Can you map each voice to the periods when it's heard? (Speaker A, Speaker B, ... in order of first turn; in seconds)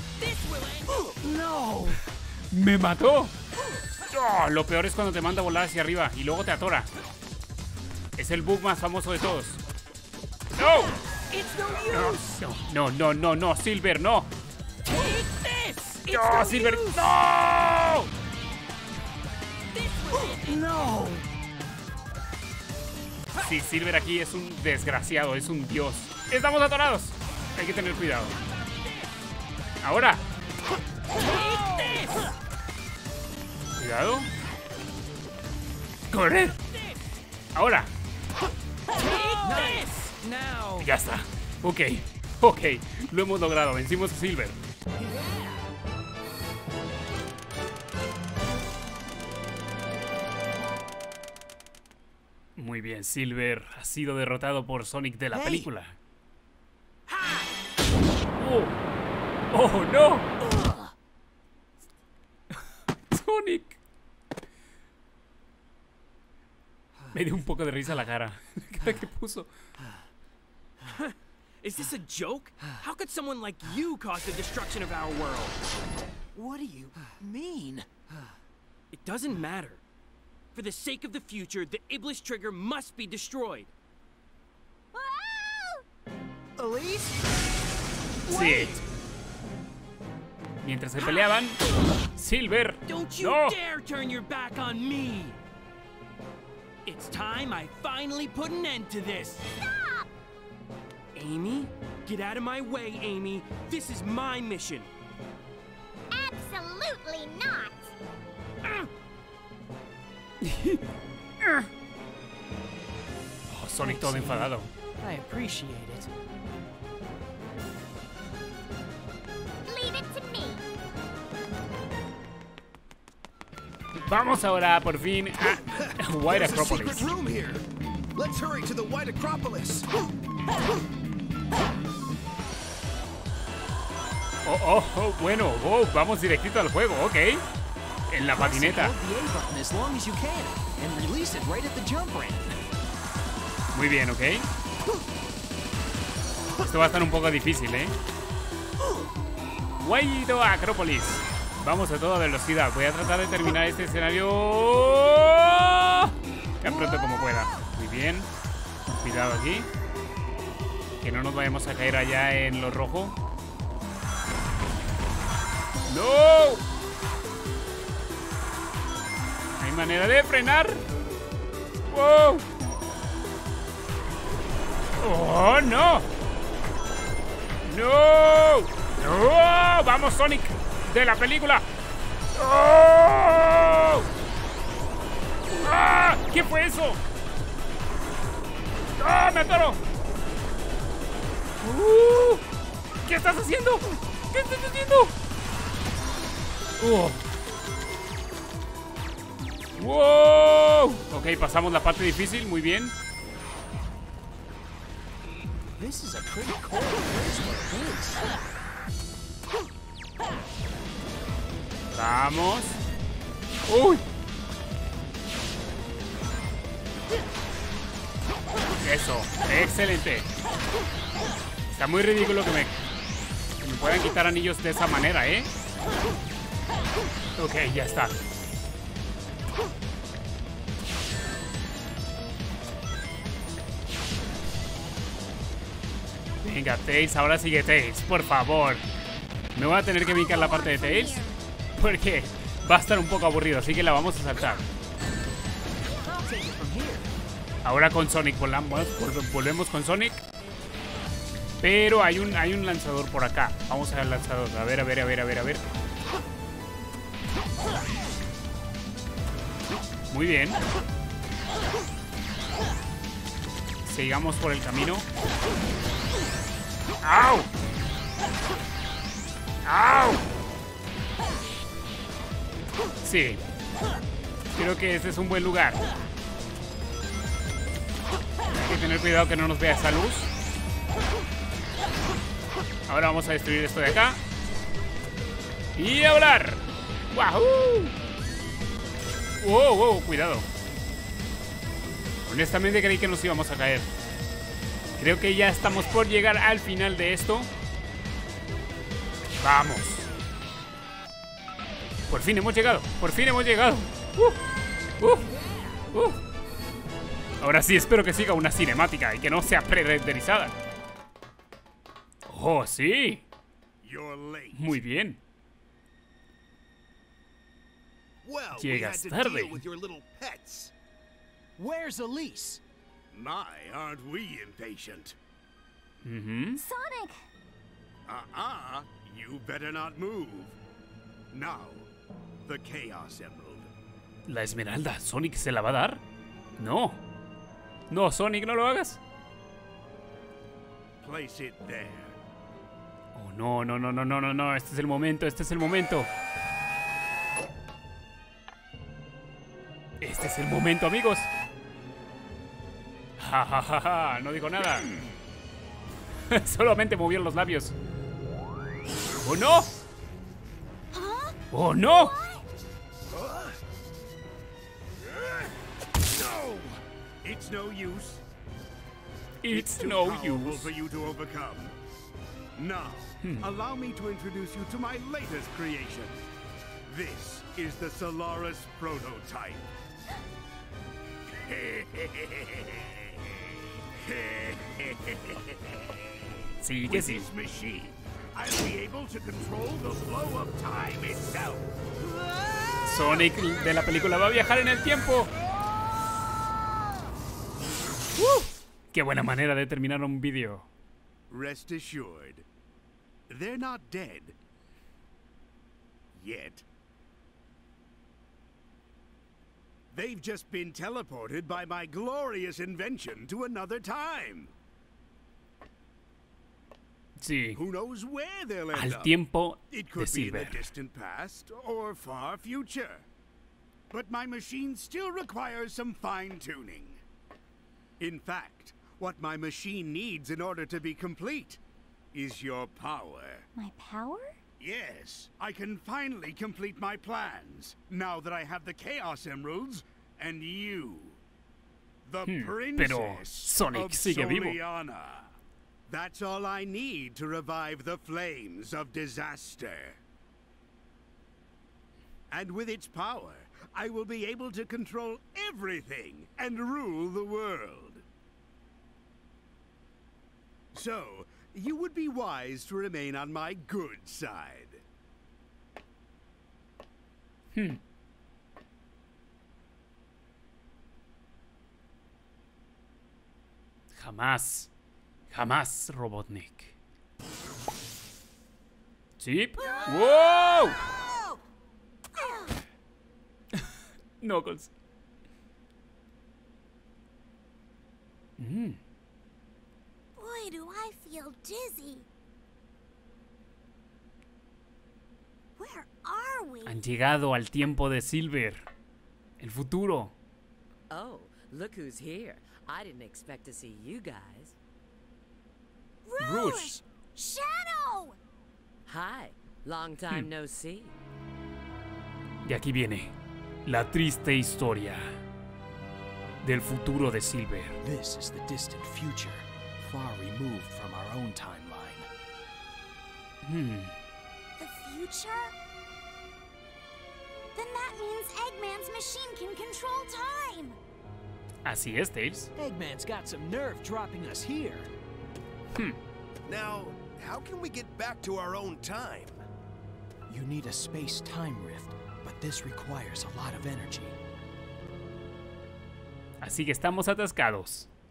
Speaker A: 0.2-2.0, 11.3-12.3, 14.9-17.2, 19.8-20.7, 31.2-32.3, 38.9-40.9, 45.1-45.6, 57.1-57.5, 70.8-75.6, 78.9-79.8, 80.5-83.7, 91.0-91.3, 92.9-95.4, 96.8-99.4, 101.2-104.9
Speaker B: 1.2-1.7, 20.3-21.2, 55.3-55.7, 76.3-77.9, 86.6-87.2, 88.3-88.8, 113.8-116.1, 138.3-142.5, 205.8-208.2, 245.9-247.1, 321.6-322.6, 517.8-522.1, 532.6-534.9, 540.3-544.2
Speaker C: 2.5-3.3, 4.1-6.9, 8.2-9.6, 10.6-10.9, 11.9-14.3, 16.1-18.1, 23.4-28.4, 29.8-30.2, 33.8-34.3, 36.1-36.6, 37.5-37.9, 40.8-44.6, 52.6-56.0, 58.4-58.8, 59.5-60.3, 63.1-63.8, 67.1-69.5, 88.3-88.8, 90.6-91.6, 92.1-93.6, 110.4-110.8, 111.4-111.7, 113.5-114.7, 124.0-127.1, 134.4-137.4, 138.1-138.9, 143.7-144.5, 146.6-148.0, 149.8-158.3, 158.9-159.7, 161.0-163.2, 165.9-166.6, 169.6-170.8, 171.8-172.4, 175.0-176.1, 177.6-181.7, 182.3-184.1, 185.5-187.0, 189.0-189.8, 191.6-192.4, 193.1-195.1, 196.8-197.2, 199.8-202.9, 211.9-212.8, 213.7-214.0, 218.8-220.3, 221.7-222.8, 223.6-225.5, 227.4-228.2, 236.4-238.8, 239.6-241.2, 241.8-244.7, 247.6-250.2, 251.6-255.6, 260.1-260.6, 263.8-265.1, 267.0-267.5, 269.6-270.2, 273.0-273.4, 274.5-275.8, 278.5-280.3, 282.9-284.2, 285.8-287.9, 289.4-290.5, 292.2-293.9, 295.0-297.5, 299.4-300.1, 302.1-304.4, 305.0-305.3, 305.9-306.2, 307.4-310.6, 312.3-313.2, 314.6-315.2, 318.6-319.6, 326.0-326.6, 334.3-336.0, 336.6-337.0, 337.9-339.0, 343.1-346.1, 350.0-351.3, 353.2-354.9, 356.3-357.8, 359.2-359.7, 361.5-362.2, 369.4-370.7, 386.6-387.3, 392.8-395.3, 398.2-400.7, 417.2-417.6, 418.7-420.7, 442.3-444.6, 467.6-467.8, 473.9-474.7, 475.3-476.8, 479.2-480.8, 484.2-484.7, 488.4-488.8, 496.7-498.7, 499.4-500.1, 506.2-506.8, 512.5-513.1, 513.7-515.2, 516.4-517.8, 523.4-523.9, 531.6-532.5, 546.4-547.9
Speaker D: 84.9-85.8, 99.5-100.1, 106.1-107.9, 119.7-120.6, 240.1-241.4, 326.6-327.3, 360.9-362.5, 433.6-434.4, 479.6-481.4, 482.1-482.6, 490.2-492.1, 495.6-496.9, 506.1-508.2, 524.6-525.5, 527.5-530.8
Speaker E: 126.3-127.6, 128.2-129.9, 319.3-319.6, 363.1-363.6, 366.3-366.8, 536.5-539.4
Speaker F: 313.8-314.8, 318.2-320.6, 323.1-325.2, 328.1-330.6, 331.3-331.9, 332.4-333.7, 341.0-342.2, 366.2-366.6, 367.2-368.2, 369.5-371.8, 372.6-376.2, 376.9-379.7, 381.4-386.2, 386.9-391.7, 401.3-402.4, 403.3-404.4, 406.1-406.7, 409.9-414.5, 417.6-419.1, 419.7-423.1, 423.9-427.0, 428.0-431.6, 432.1-433.5, 434.6-441.2, 442.1-445.3, 445.9-450.0, 452.3-458.0, 460.7-464.8, 537.8-538.9
Speaker G: 500.9-504.6, 508.9-510.9